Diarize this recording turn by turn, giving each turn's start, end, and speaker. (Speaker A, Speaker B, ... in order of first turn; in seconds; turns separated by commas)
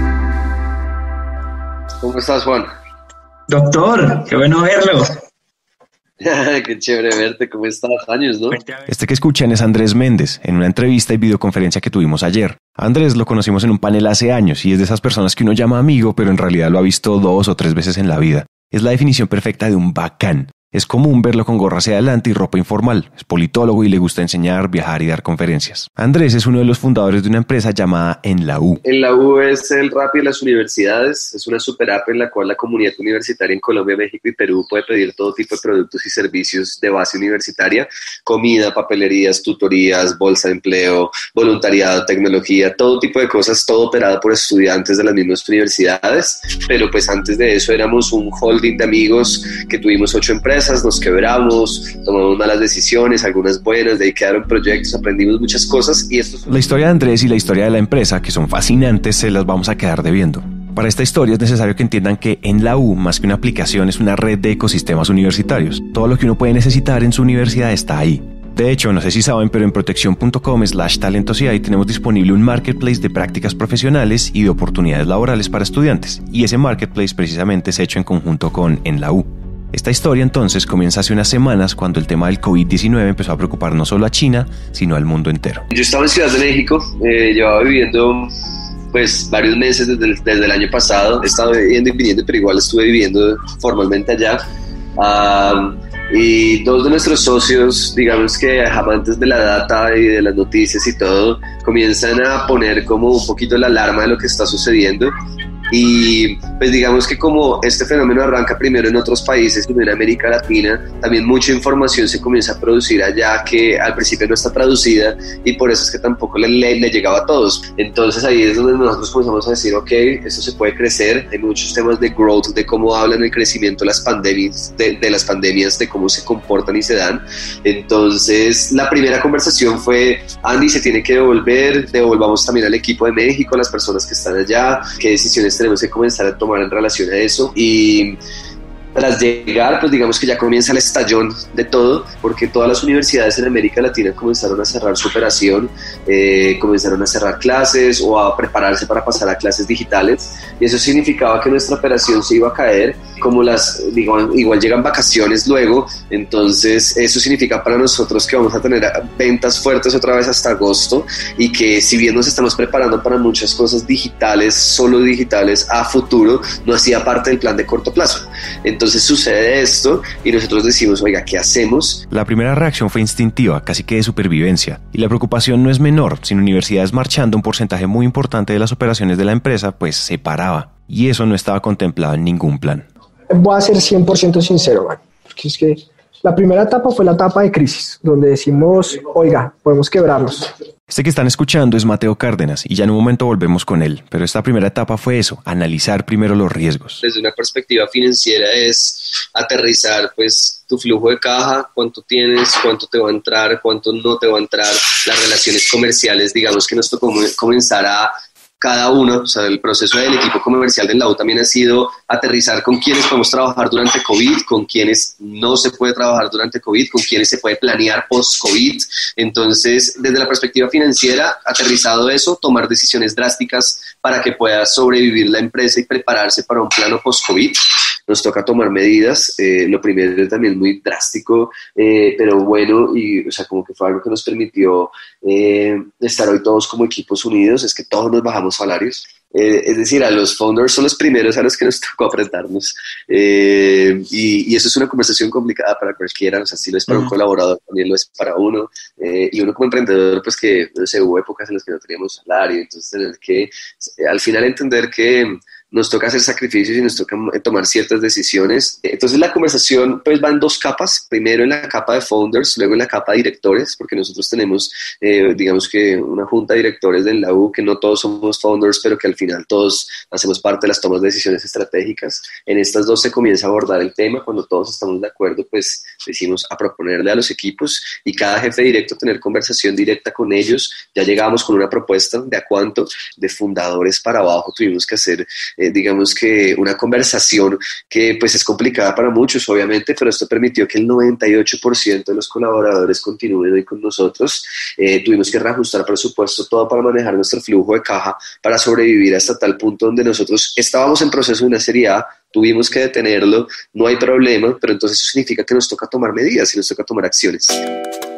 Speaker A: 2.0-2.7, Speaker B: 3.5-5.2, Speaker A: 6.2-8.6, Speaker B: 8.5-8.9, Speaker C: 8.9-28.8, Speaker A: 28.8-56.5, Speaker C: 56.5-85.7, Speaker A: 85.7-88.3, Speaker A: 88.9-94.4, Speaker A: 95.0-105.1, Speaker A: 105.7-138.2, Speaker A: 138.9-172.1, Speaker C: 172.1-182.9, Speaker D: 183.3-190.5, Speaker C: 190.9-197.0, Speaker A: 197.0-307.6